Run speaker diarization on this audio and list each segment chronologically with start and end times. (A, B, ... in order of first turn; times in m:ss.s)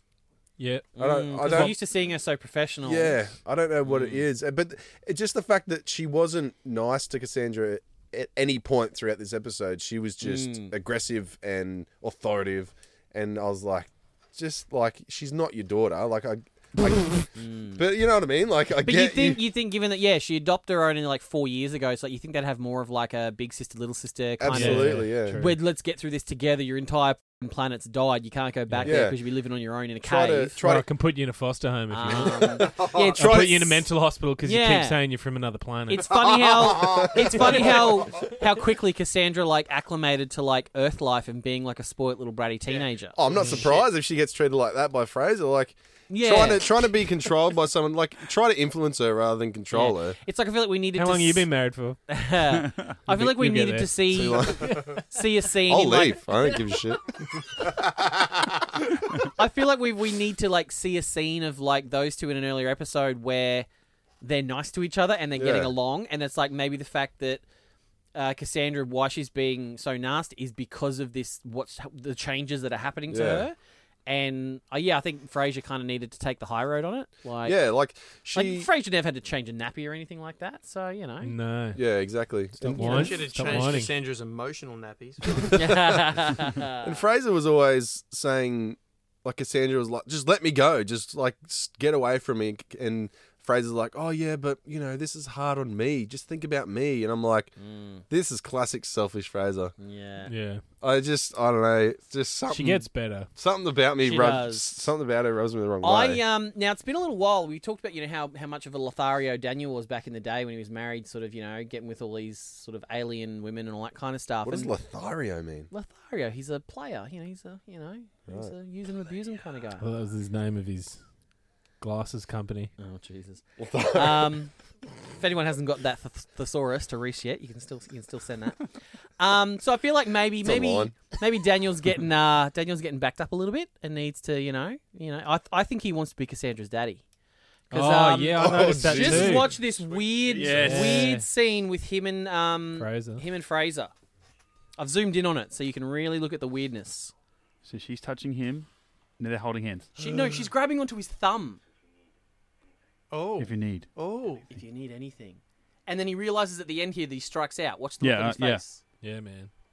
0:00.6-0:01.7 A
0:00.9-0:03.2 B
0:01.0-0:01.8 C
0:02.8-0:19.4 C
0:03.8-0:04.2 B
0:10.2-0:10.7 B
0:17.4-0:17.8 B
0:18.8-0:30.6 B
0:24.4-0:25.4 C
0:24.5-0:25.6 A
0:28.7-0:29.0 A
0:28.8-0:29.2 C
0:30.0-0:30.9 C
0:30.6-0:36.1 A
0:31.9-0:33.5 B
0:32.2-0:33.9 C
0:34.4-0:35.0 B
0:35.9-0:43.8 B
0:36.2-0:37.9 C
0:36.8-0:37.1 D
0:43.2-0:50.2 C
0:46.1-0:47.0 B
0:49.7-0:51.5 B
0:50.9-0:52.0 A
0:52.1-0:56.6 B
0:53.0-0:54.3 A
0:54.1-0:55.0 C
0:55.6-0:58.5 C
0:59.4-1:03.7 B
1:04.2-1:07.4 B
1:05.4-1:05.7 C
1:08.1-1:17.6 B
1:13.1-1:13.4 C
1:17.4-1:18.7 C
1:18.3-1:21.3 B
1:21.2-1:21.8 A
1:21.7-1:23.2 C
1:22.6-1:23.9 A
1:22.7-1:25.6 D
1:22.8-1:23.1 B
1:25.5-1:26.0 C
1:25.5-1:27.0 B
1:26.8-1:37.5 C
1:37.6-1:38.0 B
1:38.1-1:39.7 C
1:39.8-1:40.3 B
1:40.2-1:40.6 A
1:40.8-1:46.2 C
1:42.5-1:43.3 A
1:44.0-1:44.7 B
1:45.8-1:54.7 B
1:54.4-1:55.7 C
1:55.7-1:59.8 B
1:58.3-1:58.5 C
1:59.8-2:01.0 A
2:01.8-2:02.7 A
2:02.8-2:04.5 B
2:03.6-2:04.4 C
2:05.1-2:08.7 B
2:09.2-2:17.0 B
2:10.4-2:10.9 C
2:17.7-2:23.9 B
2:17.7-2:19.5 A
2:18.3-2:19.5 C
2:19.6-2:20.9 D
2:20.4-2:21.1 E
2:20.6-2:21.2 A
2:22.8-2:23.2 A
2:24.8-2:27.1 B
2:27.6-2:28.7 E
2:29.2-2:29.9 E
2:30.0-2:31.6 B
2:30.0-2:30.5 D
2:33.1-2:34.5 D
2:33.4-2:33.9 E
2:34.5-2:38.8 B
2:38.0-2:38.6 E
2:39.0-2:39.5 A